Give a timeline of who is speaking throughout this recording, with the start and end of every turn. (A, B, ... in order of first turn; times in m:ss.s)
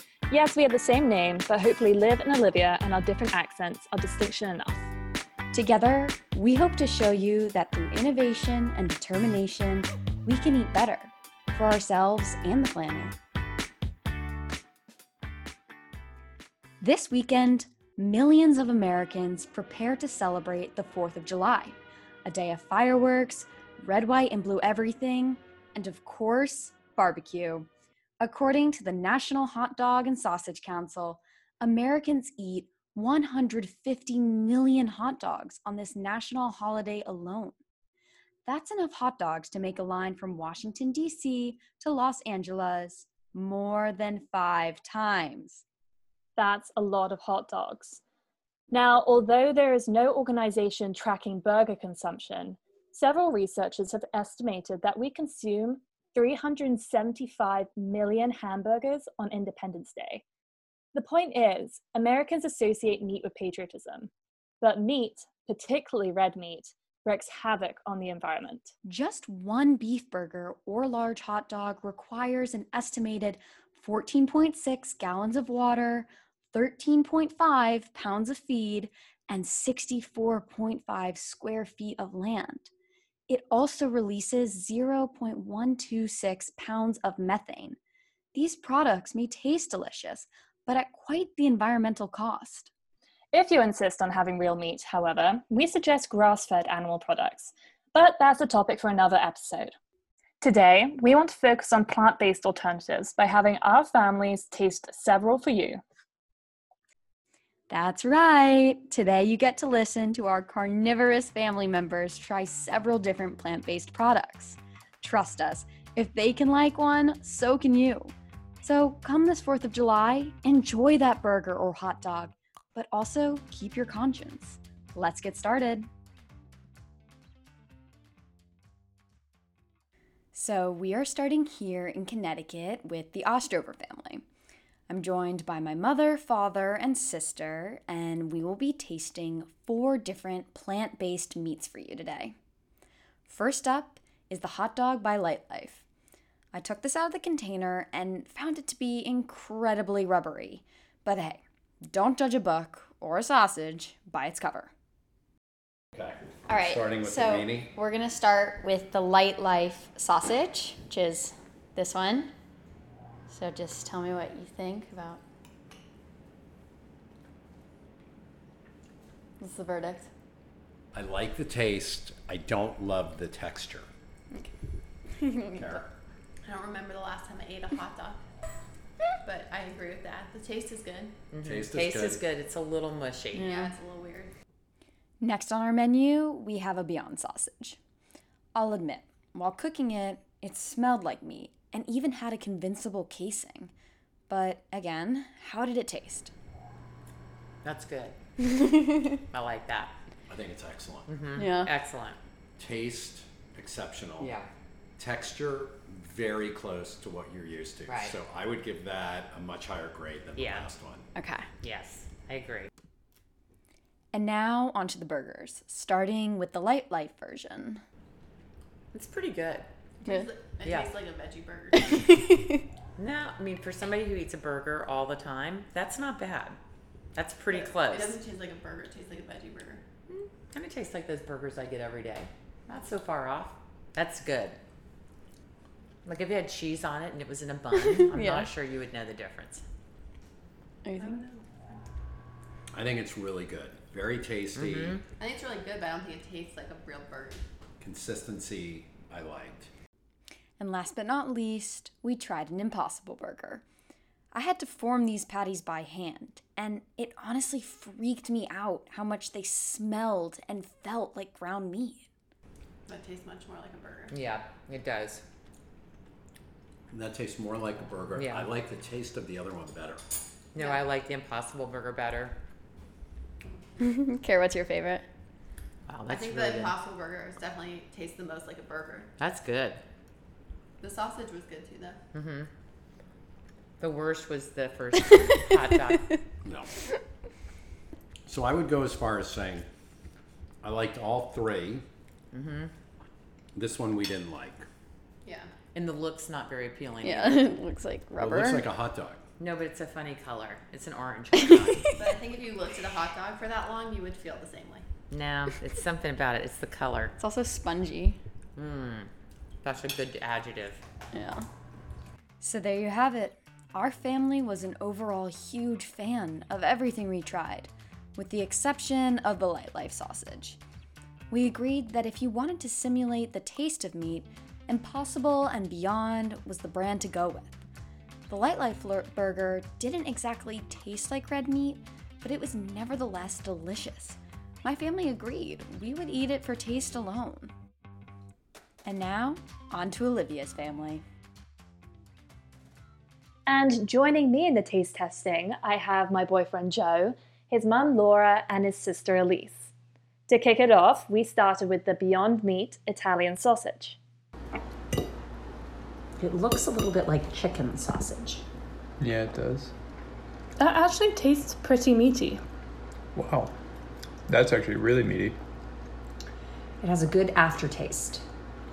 0:00.3-0:04.9 A
0:05.5-0:13.1 B
0:16.8-0:27.7 B
0:28.2-0:37.6 B
0:38.5-0:45.6 B
0:46.4-0:48.0 A
0:48.7-1:00.2 A
1:00.9-1:08.7 A
1:08.8-1:22.7 B
1:23.3-1:27.8 B
1:28.3-1:32.7 B
1:33.3-1:39.7 A
1:40.4-1:45.8 A
1:47.7-2:05.9 B
2:10.3-2:14.2 B
2:14.9-2:22.4 B
2:23.2-2:25.8 B
2:26.5-2:34.7 B
2:35.9-2:37.7 C
2:36.5-2:42.3 B
2:43.3-2:45.2 B
2:49.4-2:50.1 B
2:50.9-2:53.9 C
2:55.5-2:55.9 C
2:56.4-2:58.2 D
2:59.2-3:01.2 D
3:01.3-3:03.6 E
3:01.4-3:02.2 C
3:03.4-3:04.3 D
3:05.2-3:07.8 B
3:08.5-3:13.7 B
3:14.3-3:16.3 B
3:17.6-3:18.2 E
3:19.3-3:19.9 E
3:20.3-3:21.1 C
3:21.1-3:22.2 E
3:21.4-3:21.7 B
3:22.6-3:24.4 C
3:24.2-3:24.5 E
3:25.0-3:31.0 C
3:27.8-3:28.2 E
3:30.3-3:30.7 E
3:31.2-3:31.4 B
3:31.6-3:32.7 E
3:34.1-3:37.8 B
3:38.9-3:39.7 E
3:40.0-3:42.0 D
3:40.6-3:41.0 E
3:43.0-3:46.6 E
3:47.1-3:48.2 E
3:47.4-3:49.8 D
3:50.1-3:54.6 E
3:56.0-3:59.6 E
3:58.1-3:58.5 B
4:00.9-4:01.7 D
4:02.7-4:05.0 C
4:04.5-4:05.0 E
4:05.2-4:07.4 D
4:07.8-4:09.7 C
4:10.6-4:13.6 B
4:14.3-4:22.1 B
4:22.9-4:24.1 D
4:24.1-4:25.2 E
4:26.9-4:30.0 C
4:28.1-4:28.5 E
4:30.5-4:32.3 E
4:30.6-4:30.9 D
4:33.8-4:35.0 B
4:35.9-4:36.8 E
4:36.0-4:39.1 D
4:39.2-4:39.8 E
4:40.8-4:42.0 D
4:42.1-4:42.5 E
4:43.8-4:46.2 E
4:48.3-4:49.7 C
4:50.6-4:51.8 C
4:52.3-4:52.7 E
4:53.5-4:54.6 C
4:55.2-4:55.5 D
4:55.7-4:57.6 E
4:57.0-4:58.6 B
4:58.2-4:59.2 C
4:59.4-5:02.0 E
5:02.0-5:04.8 D
5:05.1-5:07.1 E
5:07.2-5:08.2 B
5:08.6-5:09.1 E
5:09.6-5:10.8 E
5:11.1-5:11.4 B
5:12.4-5:20.6 B
5:21.3-5:27.6 B
5:28.3-5:37.5 B
5:38.8-5:41.0 B
5:43.4-5:49.7 A
5:50.3-5:54.0 A
5:56.2-5:58.4 F
5:59.0-5:59.7 G
6:00.6-6:02.4 A
6:03.1-6:03.5 G
6:04.3-6:05.4 G
6:06.8-6:08.2 F